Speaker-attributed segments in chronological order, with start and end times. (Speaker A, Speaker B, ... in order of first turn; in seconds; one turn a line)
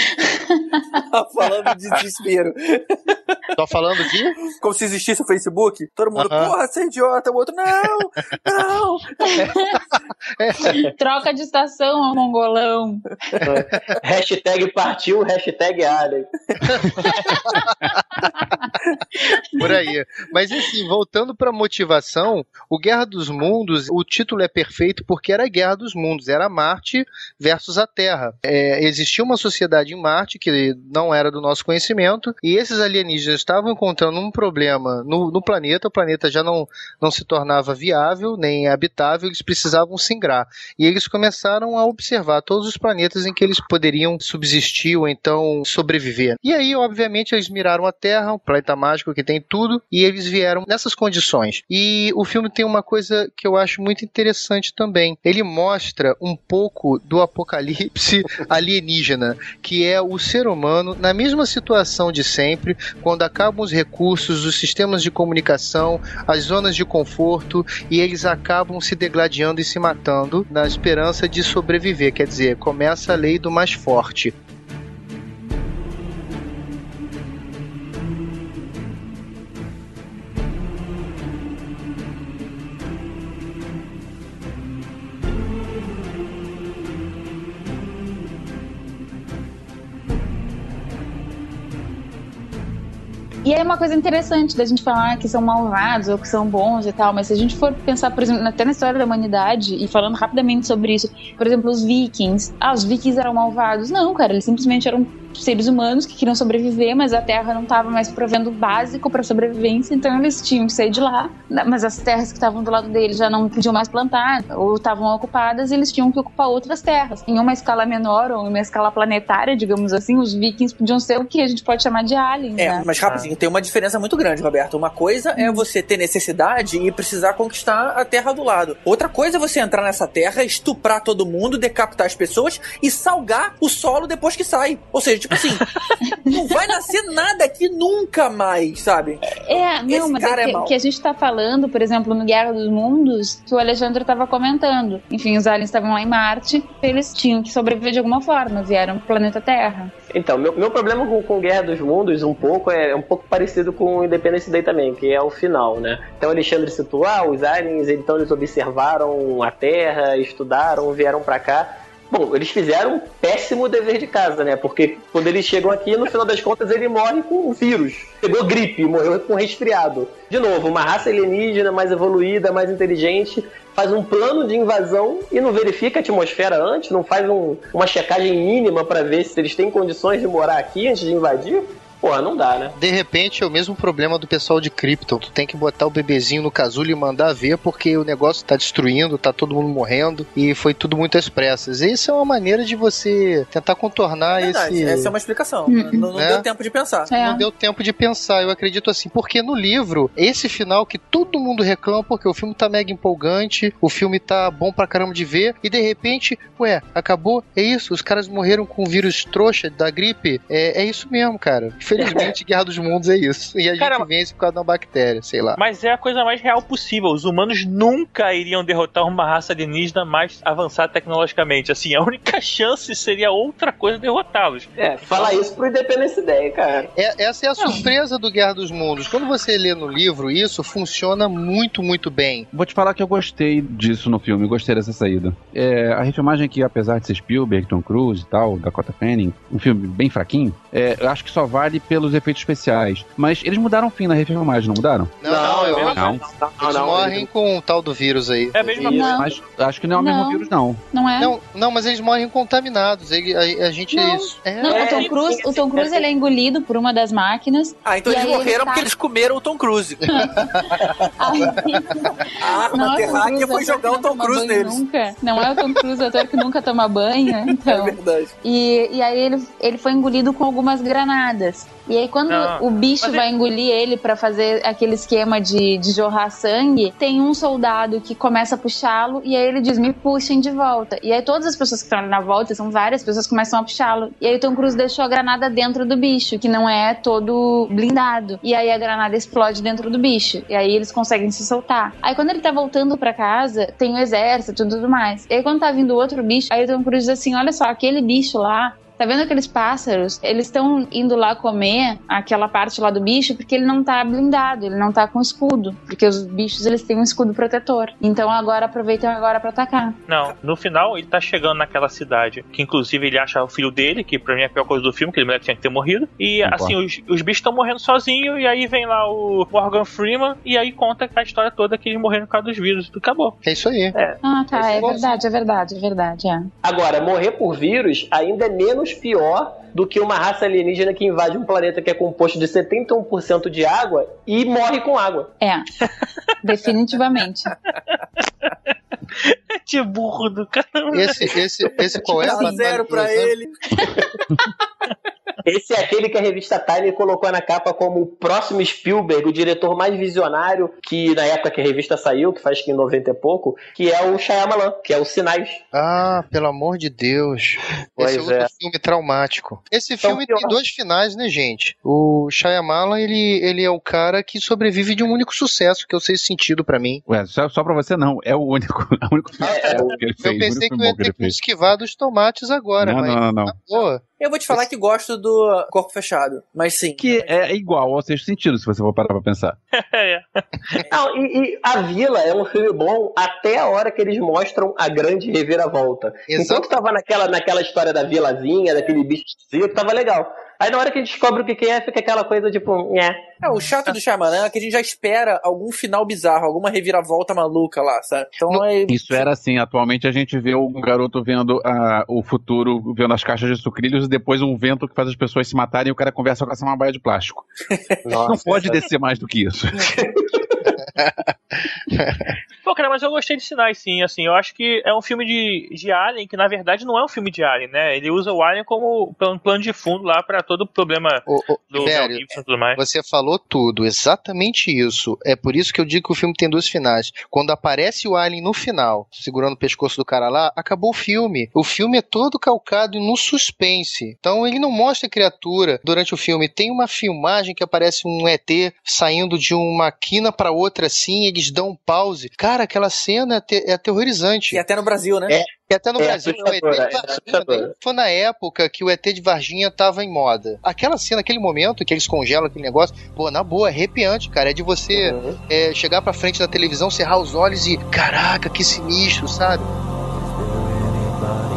Speaker A: 0.1-0.8
Speaker B: 1.1-3.4
Speaker C: 3.5-4.4
Speaker B: 4.6-9.5
Speaker C: 6.1-6.5
Speaker A: 9.3-9.8
Speaker C: 10.4-10.8
Speaker A: 10.6-13.2
Speaker D: 13.4-17.1
Speaker C: 19.6-74.3
Speaker A: 93.4-122.8
Speaker B: 122.6-135.7
Speaker E: 123.0-123.3
Speaker A: 125.4-125.6
Speaker B: 136.2-140.7
Speaker A: 139.3-149.9
Speaker D: 150.1-182.8
Speaker C: 182.8-195.1
Speaker B: 194.3-197.1
Speaker A: 195.7-196.0
Speaker C: 196.1-196.4
Speaker A: 197.1-197.4
Speaker C: 197.1-215.6
Speaker E: 213.8-214.1
Speaker E: 215.6-225.4
Speaker D: 224.8-226.9
Speaker C: 226.9-232.5
Speaker F: 232.5-245.2
Speaker C: 245.2-248.7
Speaker D: 245.2-247.3
Speaker E: 245.4-246.2
Speaker F: 245.9-246.2
Speaker E: 248.5-249.2
Speaker D: 248.6-249.2
Speaker A: 248.8-249.3
Speaker F: 249.2-250.8
Speaker A: 249.9-251.3
Speaker C: 251.2-254.9
Speaker A: 253.9-258.9
Speaker D: 254.6-256.1
Speaker E: 254.8-255.1
Speaker B: 257.8-260.3
Speaker A: 260.1-310.0
Speaker C: 261.5-261.8
Speaker B: 262.3-264.8
Speaker B: 267.5-268.3
Speaker E: 272.3-273.2
Speaker E: 310.1-323.4
Speaker F: 316.4-316.8
Speaker C: 323.4-323.9
Speaker E: 323.9-324.2
Speaker A: 324.2-326.5
Speaker C: 324.7-325.1
Speaker D: 326.6-335.3
Speaker A: 335.4-335.6
Speaker A: 336.4-337.5
Speaker E: 337.9-341.4
Speaker C: 340.9-343.3
Speaker B: 342.0-343.6
Speaker A: 342.1-342.5
Speaker D: 345.4-355.6
Speaker C: 355.7-367.0
Speaker D: 358.0-358.5
Speaker D: 360.0-360.5
Speaker F: 367.1-371.3
Speaker D: 369.4-370.0
Speaker C: 369.7-374.0
Speaker F: 372.8-373.6
Speaker B: 374.2-377.1
Speaker F: 377.0-379.6
Speaker E: 377.1-377.4
Speaker E: 379.7-380.8
Speaker D: 380.9-393.3
Speaker C: 386.3-386.7
Speaker B: 393.4-399.2
Speaker F: 398.9-407.4
Speaker D: 408.0-408.9
Speaker F: 408.1-409.9
Speaker D: 409.8-410.7
Speaker C: 411.0-411.3
Speaker C: 411.9-412.2
Speaker E: 412.6-422.8
Speaker C: 421.3-444.6
Speaker B: 444.5-445.3
Speaker D: 445.3-447.7
Speaker C: 445.7-459.7
Speaker D: 454.9-455.4